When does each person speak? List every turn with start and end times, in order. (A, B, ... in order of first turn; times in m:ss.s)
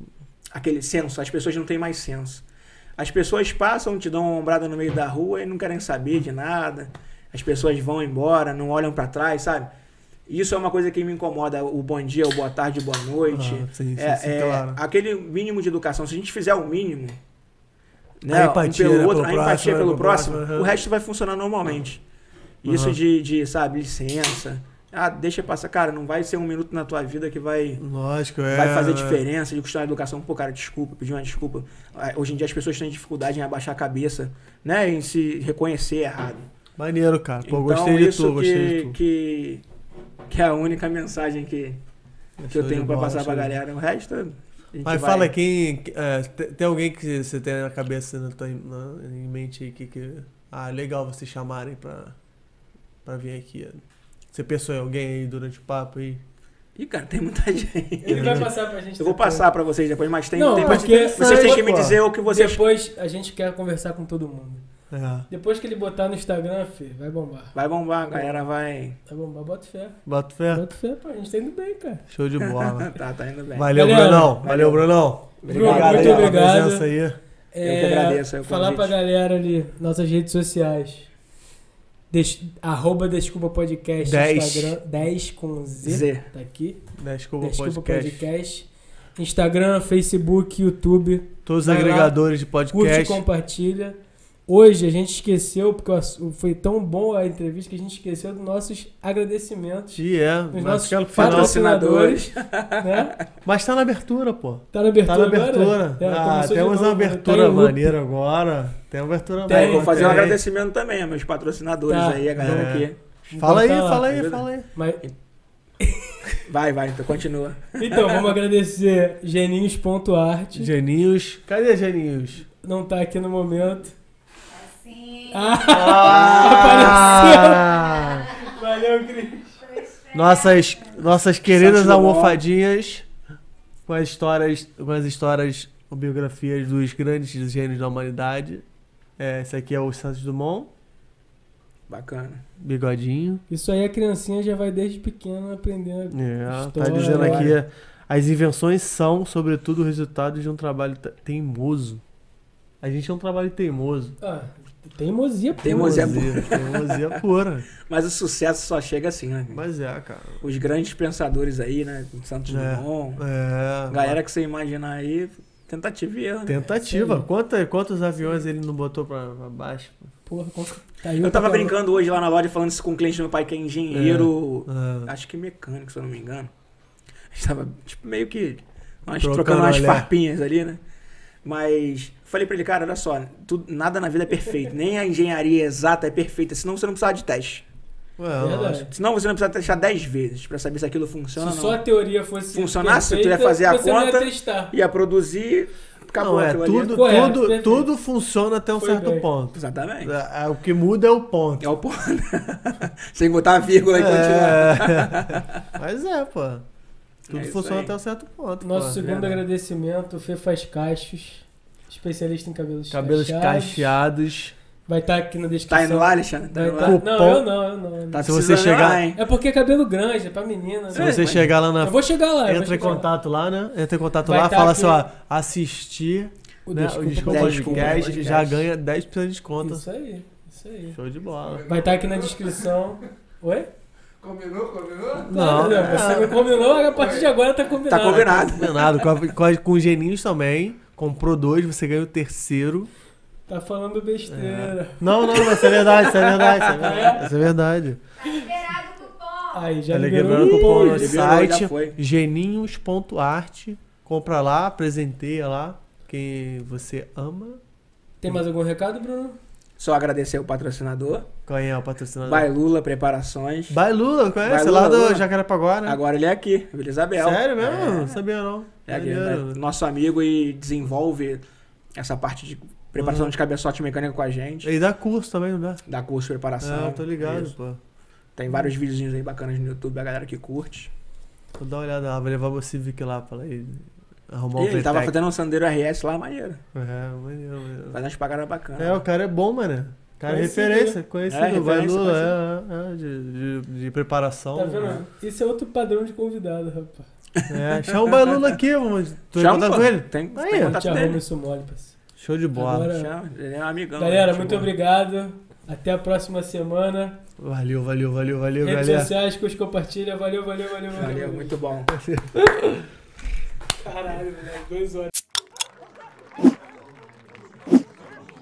0:00.5-0:02.4 A
0:03.0-0:09.7 A
0:10.3-0:17.2 A
0:13.3-0:14.8 B
0:18.2-0:22.0 A
0:18.3-0:20.8 B
0:22.6-0:27.8 A
0:22.6-0:23.0 B
0:27.8-0:29.2 B
0:28.5-0:36.5 A
0:36.8-0:39.0 B
0:37.4-0:39.6 A
0:40.3-0:41.8 A
0:42.4-0:43.6 B
0:42.5-0:45.3 A
0:44.8-0:52.2 B
0:53.0-0:56.2 B
0:56.8-1:02.6 A
0:58.0-0:59.5 C
0:58.1-0:58.5 B
1:00.3-1:04.6 C
1:00.5-1:02.0 B
1:04.9-1:05.3 B
1:05.3-1:07.6 C
1:07.6-1:09.0 A
1:08.1-1:08.4 C
1:09.1-1:12.0 C
1:10.1-1:10.7 B
1:12.1-1:13.0 B
1:12.4-1:14.9 A
1:13.5-1:17.2 B
1:13.7-1:14.4 C
1:15.4-1:16.4 A
1:15.5-1:16.9 C
1:17.5-1:21.1 C
1:17.6-1:18.9 A
1:22.1-1:26.8 C
1:24.0-1:24.8 B
1:25.8-1:26.3 A
1:27.0-1:28.3 B
1:27.4-1:32.2 C
1:31.5-1:33.2 B
1:32.7-1:40.0 C
1:39.9-1:41.6 B
1:40.5-1:42.2 C
1:41.2-1:43.2 A
1:42.8-1:43.2 C
1:43.4-1:50.4 B
1:44.7-1:48.0 C
1:49.5-1:50.3 C
1:49.5-1:53.0 A
1:51.9-1:52.3 C
1:52.4-1:54.7 B
1:53.3-1:54.1 C
1:54.1-1:54.4 A
1:54.7-1:55.0 C
1:55.8-1:56.4 C
1:56.4-1:58.3 A
1:57.8-2:00.7 C
2:00.5-2:02.5 B
2:02.6-2:03.9 C
2:04.5-2:05.8 D
2:05.3-2:07.8 C
2:05.7-2:08.3 B
2:06.0-2:07.2 A
2:07.6-2:08.6 D
2:08.4-2:09.6 C
2:09.6-2:11.1 D
2:10.1-2:13.1 B
2:11.4-2:12.4 A
2:13.9-2:18.6 B
2:19.2-2:20.7 B
2:21.9-2:22.4 A
2:22.6-2:23.4 B
2:23.5-2:27.6 C
2:26.1-2:32.0 B
2:27.1-2:27.5 A
2:32.8-2:34.2 B
2:34.2-2:36.4 C
2:35.6-2:37.2 A
2:35.6-2:37.7 B
2:37.9-2:39.6 A
2:39.5-2:40.4 B
2:40.4-2:43.2 A
2:42.5-2:44.2 B
2:43.9-2:46.7 A
2:46.5-2:50.1 B
2:46.7-2:47.3 C
2:50.3-2:51.8 C
2:51.2-2:56.5 A
2:53.9-2:55.1 B
2:57.3-3:00.8 A
2:59.2-3:00.1 B
3:01.4-3:07.6 A
3:08.2-3:08.9 B
3:08.4-3:08.9 C
3:08.9-3:11.8 A
3:11.4-3:14.7 C
3:12.5-3:17.0 A
3:16.2-3:21.7 B
3:16.8-3:17.9 C
3:18.8-3:19.3 C
3:19.5-3:20.1 A
3:21.6-3:25.7 A
3:23.9-3:26.6 B
3:27.3-3:27.9 A
3:27.3-3:29.4 B
3:28.6-3:33.9 C
3:32.9-3:34.6 B
3:34.9-3:38.3 C
3:35.7-3:37.0 A
3:36.8-3:37.5 B
3:38.1-3:39.2 A
3:38.2-3:39.0 B
3:39.2-3:43.1 C
3:40.9-3:49.8 B
3:41.0-3:41.5 A
3:44.2-3:45.0 C
3:46.7-3:48.5 C
3:47.2-3:48.6 A
3:49.6-3:51.0 C
3:50.9-3:51.6 B
3:51.4-3:52.8 E
3:51.7-3:53.7 C
3:54.2-3:57.3 E
3:55.2-3:56.5 B
3:55.3-3:58.8 C
3:57.9-3:58.9 A
3:58.2-4:02.9 B
4:03.5-4:07.3 C
4:04.3-4:08.0 B
4:05.6-4:07.2 A
4:08.2-4:09.8 D
4:09.5-4:11.2 C
4:09.9-4:17.6 B
4:10.3-4:12.0 A
4:18.2-4:19.4 C
4:19.8-4:21.3 A
4:21.5-4:22.5 B
4:22.2-4:23.8 A
4:23.7-4:26.0 B
4:24.4-4:25.3 A
4:25.8-4:28.2 A
4:27.2-4:29.6 B
4:28.9-4:31.4 A
4:32.0-4:34.7 A
4:33.0-4:33.4 B
4:34.6-4:35.8 B
4:35.9-4:37.6 A
4:36.6-4:37.8 B
4:38.4-4:40.9 A
4:41.6-4:45.2 B
4:44.6-4:46.6 A
4:46.7-4:48.0 B
4:47.9-4:49.0 A
4:48.8-4:55.1 B
4:50.3-4:51.0 C
4:51.3-4:52.4 A
4:54.6-4:57.1 C
4:57.4-4:58.6 A
4:57.5-5:00.8 B
4:59.4-5:01.2 A
5:00.6-5:02.0 C
5:02.2-5:02.9 B
5:02.6-5:03.1 C
5:02.9-5:04.7 A
5:04.0-5:07.2 C
5:07.4-5:09.1 B
5:08.6-5:11.6 C
5:10.9-5:12.0 A
5:11.9-5:12.9 B
5:13.8-5:15.1 C